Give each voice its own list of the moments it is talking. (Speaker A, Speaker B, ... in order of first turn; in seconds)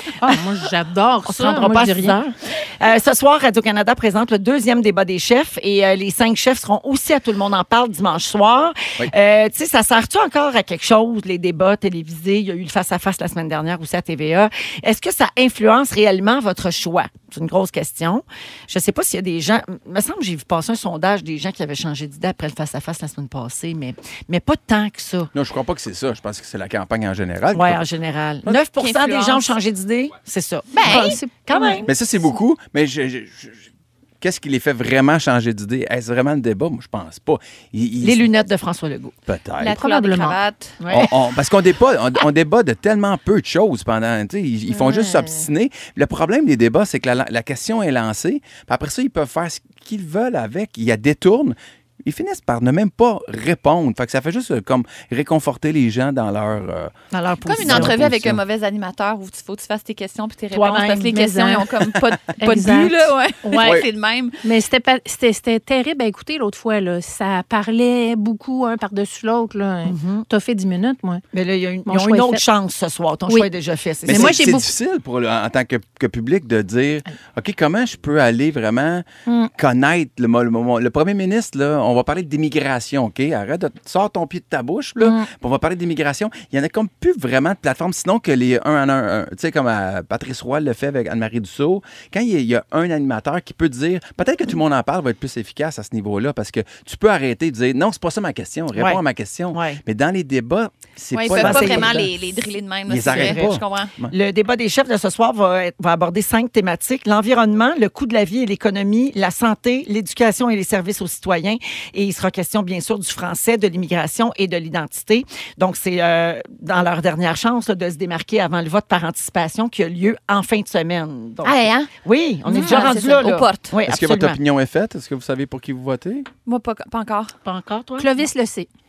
Speaker A: 0.2-2.2, 30.8-31.9, 39.8-40.4, 44.7-45.4, 61.1-61.7, 62.4-63.8, 64.4-71.2, 71.8-72.4, 74.0-74.7, 85.0-85.3, 122.5-122.9, 128.0-128.7
Speaker B: 1.2-25.3, 27.5-31.9, 38.0-39.1, 40.8-41.1, 57.1-58.0, 60.5-61.1, 69.8-70.2, 71.3-74.5, 98.7-99.0, 99.5-99.8, 101.3-102.0, 103.1-103.5, 104.1-124.4, 127.4-128.1
Speaker C: 25.3-27.8, 31.9-33.6, 34.2-38.3, 39.3-39.8, 40.9-56.9, 57.6-58.4, 74.0-102.1, 102.9-104.1, 123.8-126.3
Speaker D: 28.5-29.5, 30.7-31.2, 39.6-40.8, 57.5-64.4, 101.2-103.9, 121.4-121.9, 122.5-123.7, 126.5-127.3